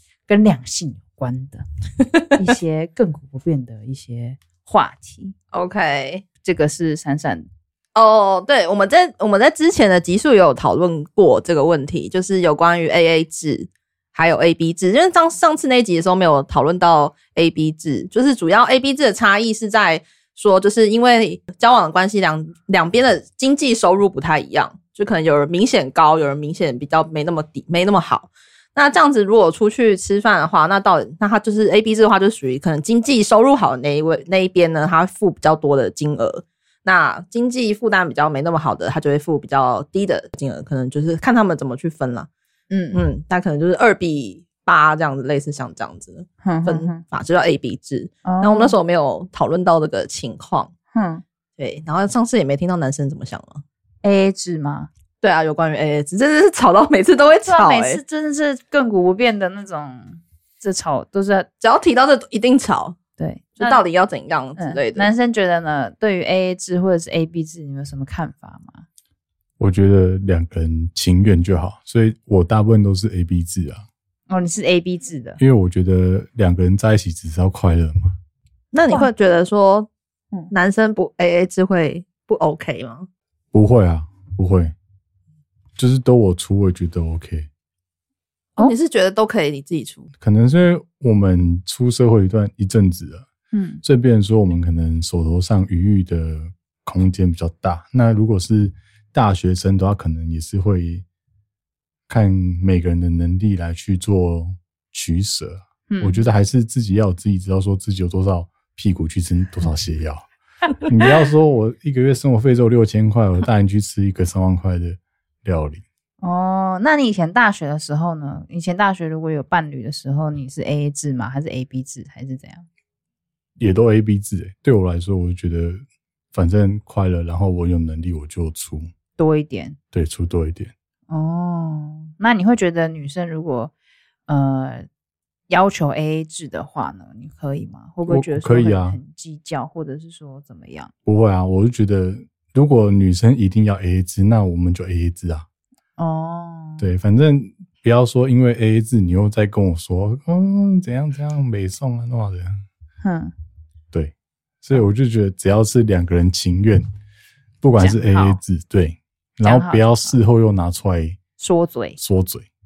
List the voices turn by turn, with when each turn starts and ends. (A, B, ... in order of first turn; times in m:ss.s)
0:00.3-0:01.6 A
0:02.4-0:05.4 A
0:05.5-0:06.2 B
0:06.4-0:07.5 A
0:08.0-0:42.3 B
0:42.7-0:43.0 A
0:42.9-0:50.7 B
0:46.4-0:47.0 A
0:48.2-0:48.8 A
0:50.9-0:51.2 A
0:51.6-0:53.6 B
0:54.0-0:54.9 A
0:55.2-0:58.0 B
0:57.4-1:01.5 A
1:01.6-1:03.0 B
1:03.2-1:03.8 A
1:03.6-1:05.1 B
1:04.6-1:08.8 A
1:09.6-1:13.8 C
1:14.3-1:15.4 A
1:15.4-1:18.1 C
1:18.7-1:19.9 B
1:20.5-1:23.1 B
1:23.5-1:24.7 C
1:25.8-1:27.5 C
1:28.6-1:30.1 B
1:30.2-1:33.3 C
1:33.5-1:33.8 A
1:33.8-1:41.0 C
1:42.1-1:50.2 C
1:45.9-1:46.2 A
1:50.8-1:55.8 C
1:56.2-2:02.7 A
2:03.6-2:05.8 C
2:06.3-2:08.9 C
2:09.2-2:09.8 A
2:09.9-2:10.7 C
2:11.1-2:13.7 A
2:14.3-2:14.8 A
2:15.5-2:20.9 A
2:18.1-2:19.0 C
2:21.1-2:25.4 C
2:26.0-2:26.8 A
2:26.8-2:32.6 C
2:33.0-2:33.3 A
2:33.9-2:36.9 C
2:37.6-2:41.2 C
2:37.8-2:38.4 A
2:39.4-2:40.2 A
2:41.4-2:42.0 A
2:42.0-2:42.5 C